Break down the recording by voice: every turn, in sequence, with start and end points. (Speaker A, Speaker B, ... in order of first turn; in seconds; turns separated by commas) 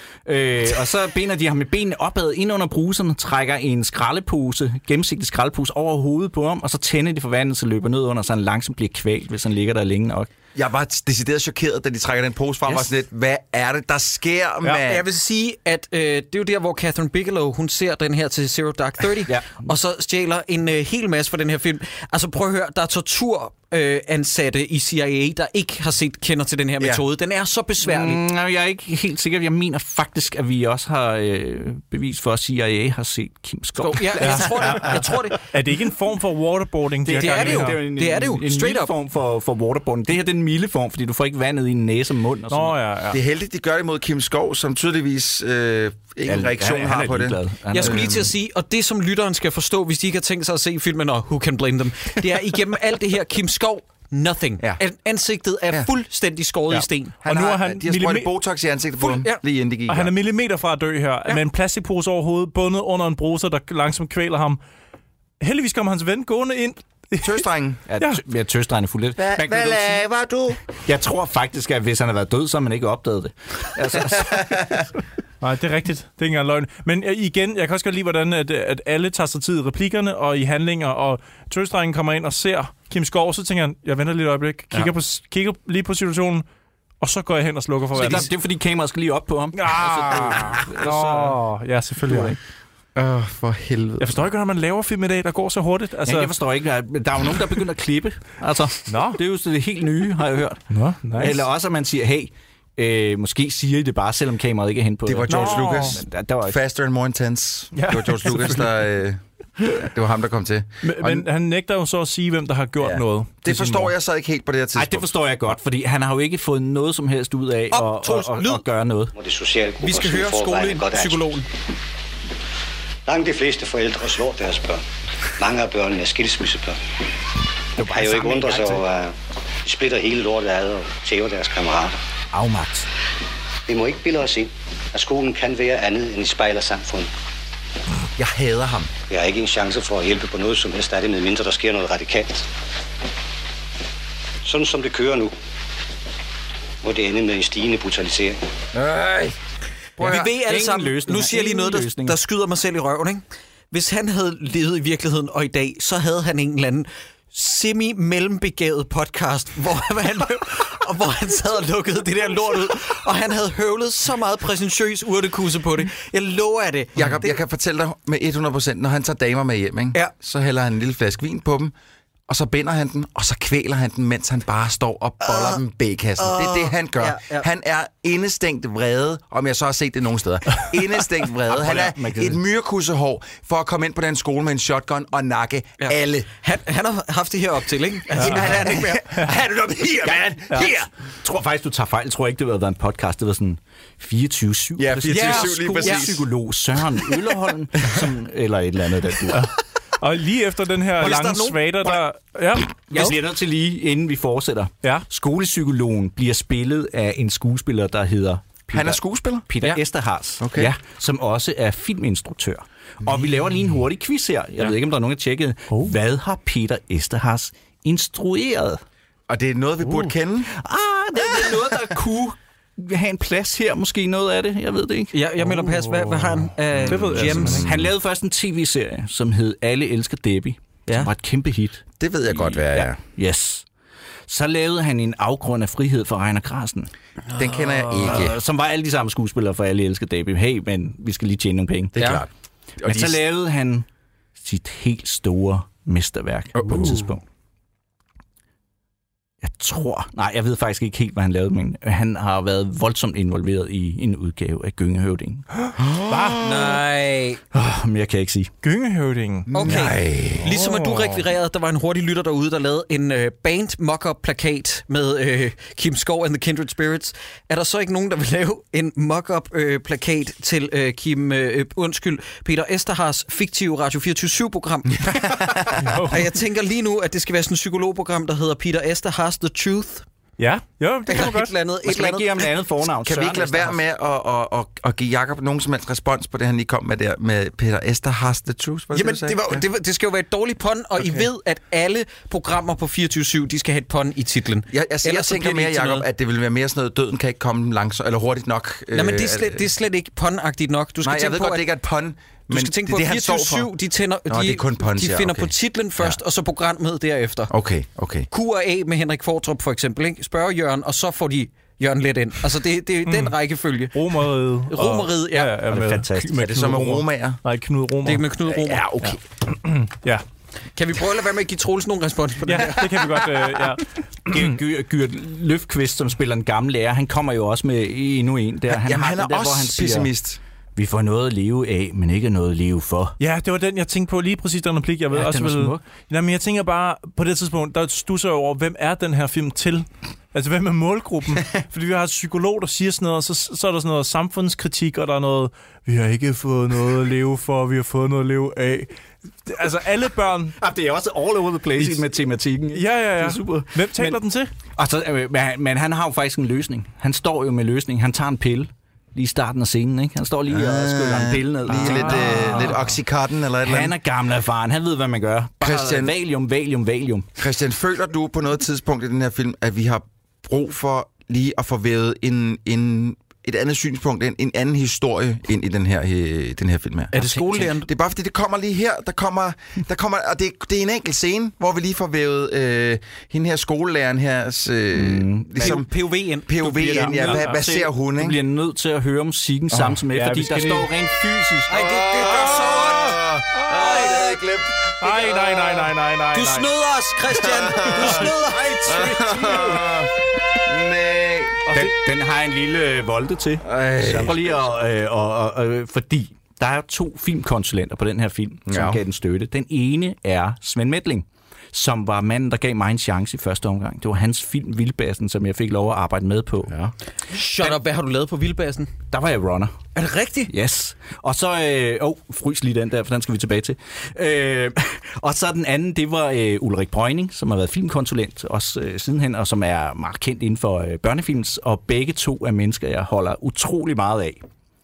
Speaker A: 0.3-10.3, Speaker B: 10.6-15.1, Speaker C: 14.8-28.2, Speaker A: 19.3-19.5, Speaker A: 27.8-35.0, Speaker C: 33.8-35.4, Speaker D: 34.2-37.8, Speaker A: 37.0-42.8, Speaker C: 37.2-38.9, Speaker D: 42.5-43.2, Speaker B: 43.1-48.3, Speaker A: 46.2-48.3, Speaker C: 47.7-57.1, Speaker B: 57.2-60.1, Speaker D: 57.3-58.3, Speaker C: 59.0-59.4, Speaker D: 59.9-64.6, Speaker D: 65.4-67.5, Speaker B: 67.2-67.8, Speaker A: 67.9-70.1, Speaker B: 69.2-70.6, Speaker A: 70.7-74.9, Speaker B: 74.0-74.9, Speaker D: 75.4-86.4, Speaker D: 87.0-88.3, Speaker A: 87.9-91.4, Speaker D: 89.5-92.4, Speaker A: 92.0-92.4, Speaker B: 93.0-94.3, Speaker D: 94.0-96.3, Speaker A: 96.0-106.6, Speaker D: 98.9-99.2, Speaker D: 100.7-101.4, Speaker B: 105.1-111.2, Speaker D: 105.3-106.0, Speaker D: 107.7-108.7, Speaker D: 110.8-113.9, Speaker B: 112.8-115.1, Speaker A: 114.8-119.1, Speaker C: 117.7-118.7, Speaker E: 119.2-121.4, Speaker C: 119.8-121.5, Speaker E: 123.1-124.8, Speaker E: 125.4-126.8, Speaker A: 127.8-128.8, Speaker E: 127.8-132.0, Speaker A: 132.3-132.9, Speaker E: 133.7-137.1, Speaker B: 138.2-138.9, Speaker E: 139.1-142.5, Speaker E: 144.4-145.3, Speaker E: 146.8-148.4, Speaker B: 148.7-149.4, Speaker B: 150.0-150.3, Speaker A: 150.0-152.2, Speaker C: 150.0-167.4, Speaker B: 167.0-171.7, Speaker B: 172.3-186.3, Speaker C: 175.3-175.6, Speaker C: 176.2-177.5, Speaker A: 181.4-182.4, Speaker C: 185.8-189.1, Speaker B: 188.1-190.9, Speaker A: 191.2-199.5, Speaker B: 194.8-196.2, Speaker C: 195.1-196.1, Speaker D: 199.3-203.2, Speaker B: 201.0-202.0, Speaker A: 202.9-218.8, Speaker B: 208.7-209.5, Speaker B: 210.4-210.7, Speaker B: 219.3-220.5, Speaker D: 219.8-220.1, Speaker A: 220.5-225.1, Speaker C: 225.1-227.6, Speaker D: 225.4-227.7, Speaker B: 226.8-227.9, Speaker A: 227.2-233.7, Speaker B: 232.0-233.0, Speaker A: 234.3-236.9, Speaker C: 237.3-238.1, Speaker B: 237.3-238.4, Speaker A: 237.9-242.2, Speaker B: 241.9-242.3, Speaker C: 242.0-242.2, Speaker B: 242.8-243.2, Speaker A: 242.8-243.9, Speaker A: 244.4-247.2, Speaker B: 246.6-247.1, Speaker A: 249.4-255.5, Speaker D: 255.6-256.4, Speaker B: 255.8-256.8, Speaker C: 256.4-257.4, Speaker A: 257.5-258.5, Speaker D: 258.6-259.5, Speaker B: 259.5-261.2, Speaker C: 259.5-275.3, Speaker B: 274.9-276.0, Speaker D: 275.8-276.3, Speaker C: 276.1-280.1, Speaker D: 280.4-281.5, Speaker C: 281.1-282.3, Speaker A: 281.8-283.8, Speaker B: 282.9-289.6, Speaker C: 288.9-296.1, Speaker B: 291.0-291.3, Speaker B: 294.7-299.6, Speaker C: 298.9-301.7, Speaker B: 301.0-303.7, Speaker C: 302.5-307.5, Speaker B: 304.3-306.2, Speaker B: 307.5-308.3, Speaker C: 308.3-314.0, Speaker D: 313.1-313.4, Speaker D: 313.9-318.3, Speaker C: 314.7-315.5, Speaker A: 315.6-317.0, Speaker B: 316.3-317.4, Speaker C: 318.1-318.8, Speaker B: 318.4-319.2, Speaker D: 319.6-320.2, Speaker C: 320.8-323.0, Speaker D: 322.4-324.5, Speaker A: 324.2-330.1, Speaker B: 328.7-330.4, Speaker A: 330.8-333.2, Speaker D: 333.2-348.9, Speaker A: 335.1-335.8, Speaker D: 349.4-350.6, Speaker A: 350.6-354.2, Speaker D: 351.8-352.0, Speaker D: 352.7-354.5, Speaker A: 354.8-362.8, Speaker B: 360.5-363.9, Speaker D: 361.7-362.8, Speaker A: 363.6-367.3, Speaker B: 365.6-366.1, Speaker B: 367.4-385.9, Speaker C: 377.1-377.9, Speaker A: 384.9-385.9, Speaker C: 385.6-387.4, Speaker B: 386.5-388.4, Speaker A: 386.6-392.3, Speaker B: 389.7-390.0, Speaker D: 390.1-390.9, Speaker C: 391.7-394.4, Speaker B: 391.8-395.9, Speaker D: 395.0-396.7, Speaker C: 396.3-399.2, Speaker B: 397.4-398.3, Speaker A: 398.0-399.9, Speaker B: 398.9-401.9, Speaker A: 401.7-416.8, Speaker B: 403.6-404.6, Speaker B: 408.7-409.0, Speaker C: 417.3-418.9, Speaker A: 419.1-419.7, Speaker C: 419.9-420.5, Speaker A: 420.5-434.4